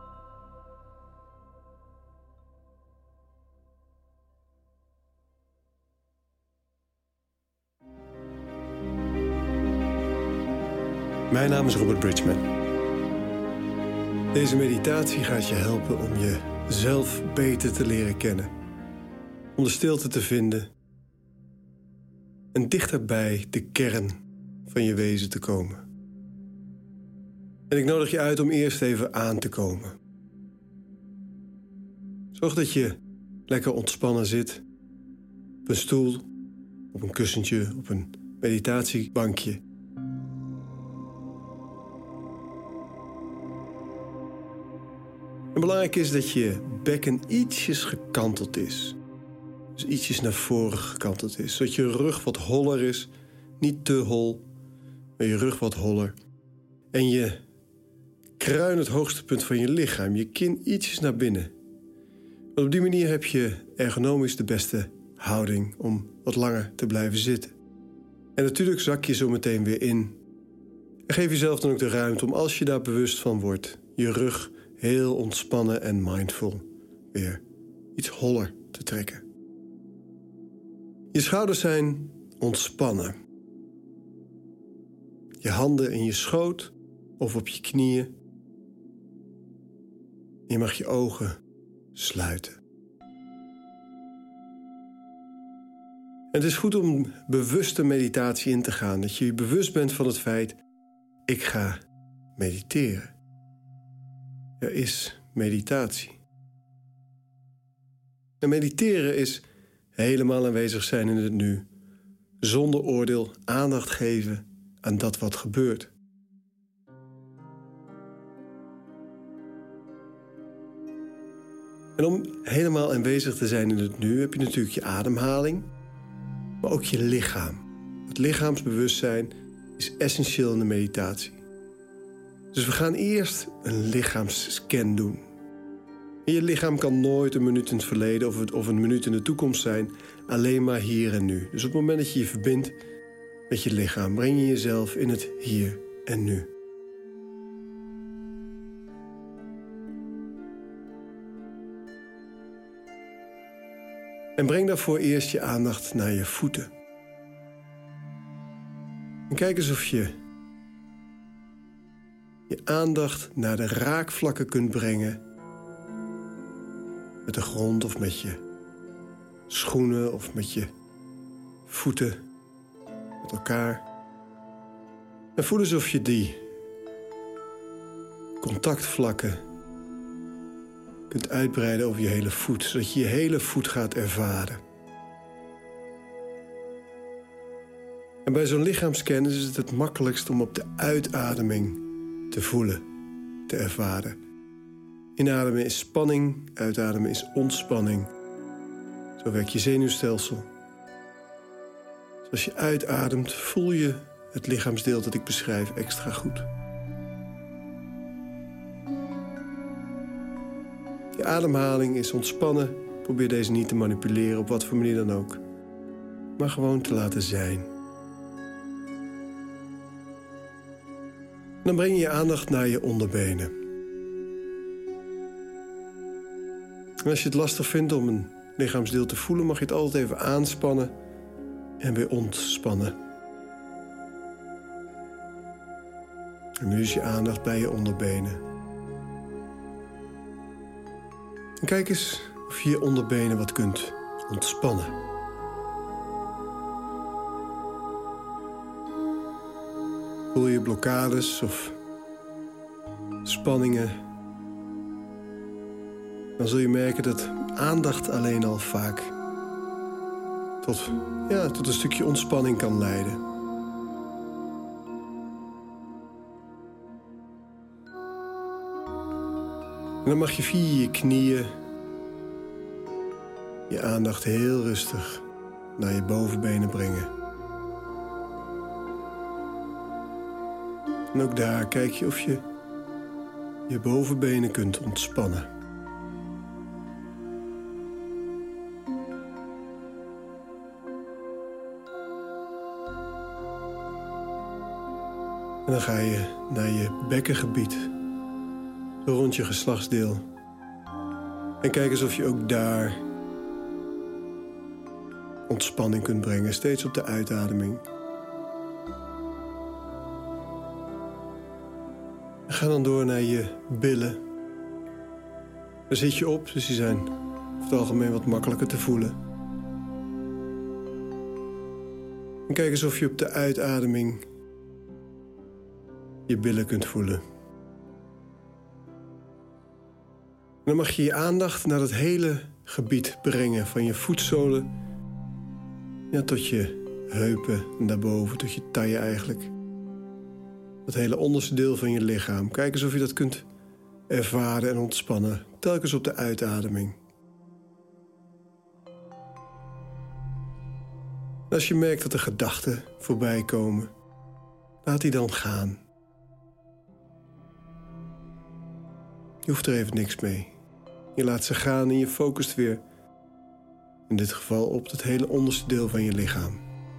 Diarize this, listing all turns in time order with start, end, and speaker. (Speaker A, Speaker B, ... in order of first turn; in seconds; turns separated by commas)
Speaker A: 11.3-12.5, Speaker A: 14.3-18.5, Speaker A: 19.6-20.7, Speaker A: 22.5-25.8, Speaker A: 27.7-30.0, Speaker A: 32.3-34.6, Speaker A: 35.6-36.3, Speaker A: 36.9-39.6, Speaker A: 45.5-49.0, Speaker A: 49.8-54.4, Speaker A: 55.2-56.1, Speaker A: 56.9-57.4, Speaker A: 58.4-61.5, Speaker A: 62.5-67.5, Speaker A: 68.4-70.2, Speaker A: 71.1-77.4, Speaker A: 78.0-79.2, Speaker A: 81.1-83.2, Speaker A: 85.4-88.1, Speaker A: 90.5-91.4, Speaker A: 91.9-92.6, Speaker A: 96.3-100.6, Speaker A: 101.3-101.8, Speaker A: 102.4-103.1, Speaker A: 104.6-106.2, Speaker A: 108.4-109.4, Speaker A: 110.0-111.7, Speaker A: 112.4-115.9, Speaker A: 122.0-125.7, Speaker A: 126.6-131.4, Speaker A: 132.5-135.2, Speaker A: 136.2-142.8, Speaker A: 143.5-146.5, Speaker A: 154.4-156.7, Speaker A: 159.3-160.1, Speaker A: 162.5-165.2, Speaker A: 167.3-168.4, Speaker A: 169.5-170.7, Speaker A: 171.7-172.2, Speaker A: 173.2-173.8, Speaker A: 175.4-176.4, Speaker A: 178.4-179.4, Speaker A: 181.1-184.6, Speaker A: 188.2-192.8, Speaker A: 193.5-194.2, Speaker A: 195.2-198.1, Speaker A: 199.2-200.5, Speaker A: 202.2-206.5, Speaker A: 211.2-215.4, Speaker A: 216.4-217.7, Speaker A: 221.6-223.5, Speaker A: 227.0-230.9, Speaker A: 231.8-233.0, Speaker A: 236.6-238.4, Speaker A: 241.6-244.9, Speaker A: 250.3-251.8, Speaker A: 253.2-254.0, Speaker A: 256.4-259.1, Speaker A: 260.6-263.2, Speaker A: 270.0-271.5, Speaker A: 273.7-275.2, Speaker A: 275.8-277.1, Speaker A: 281.1-282.4, Speaker A: 283.7-285.5, Speaker A: 295.7-297.9, Speaker A: 299.0-300.2, Speaker A: 301.6-303.0, Speaker A: 305.5-307.8, Speaker A: 312.5-314.2, Speaker A: 315.9-319.2, Speaker A: 322.5-324.2, Speaker A: 326.3-327.2, Speaker A: 330.6-334.7, Speaker A: 336.1-339.5, Speaker A: 340.9-343.5, Speaker A: 344.1-347.0, Speaker A: 351.5-353.9, Speaker A: 354.8-355.8, Speaker A: 359.4-360.5, Speaker A: 361.1-362.8, Speaker A: 364.1-366.6